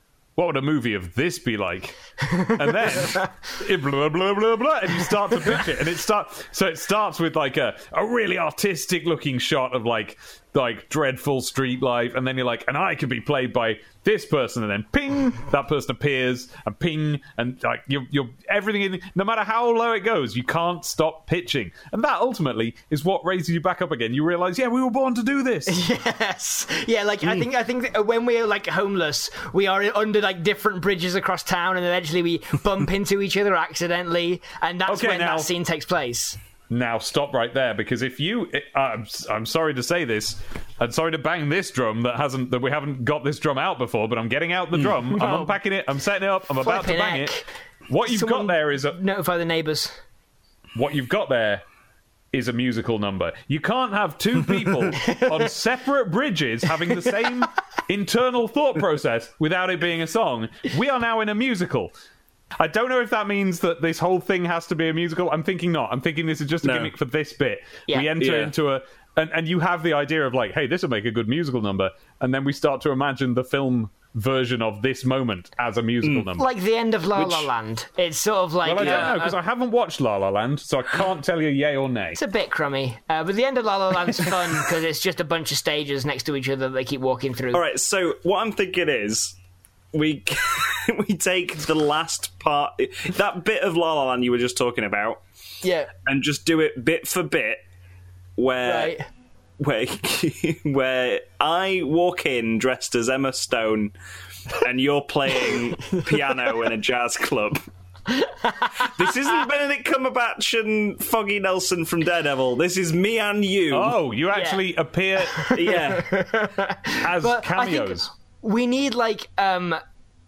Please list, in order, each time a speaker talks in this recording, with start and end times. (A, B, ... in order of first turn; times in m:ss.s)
0:00.4-0:25.8 A
0:25.7-0:36.4 B
0:34.9-0:35.5 A
0:36.7-0:49.0 A
0:45.0-0:45.5 B
0:46.6-0:47.4 B
0:48.0-0:50.0 B
0:50.7-0:51.6 A
0:52.3-1:01.9 A
1:02.6-1:16.5 A
1:06.6-1:06.9 C
1:08.2-1:08.5 C
1:16.0-1:16.3 C
1:16.4-1:19.4 B
1:17.2-1:17.5 A
1:18.6-1:22.2 A
1:18.8-1:19.1 C
1:22.2-1:27.6 B
1:27.5-1:29.4 C
1:29.9-1:35.2 C
1:35.6-1:35.9 B
1:36.0-1:37.6 C
1:38.4-1:39.0 C
1:38.6-1:39.0 B
1:39.6-1:43.9 C
1:44.5-1:47.6 C
1:48.1-1:49.0 B
1:48.8-1:54.0 C
1:53.7-1:55.7 A
1:54.3-1:54.6 B
1:55.2-1:59.8 B
1:55.5-1:56.1 C
1:57.0-1:58.1 A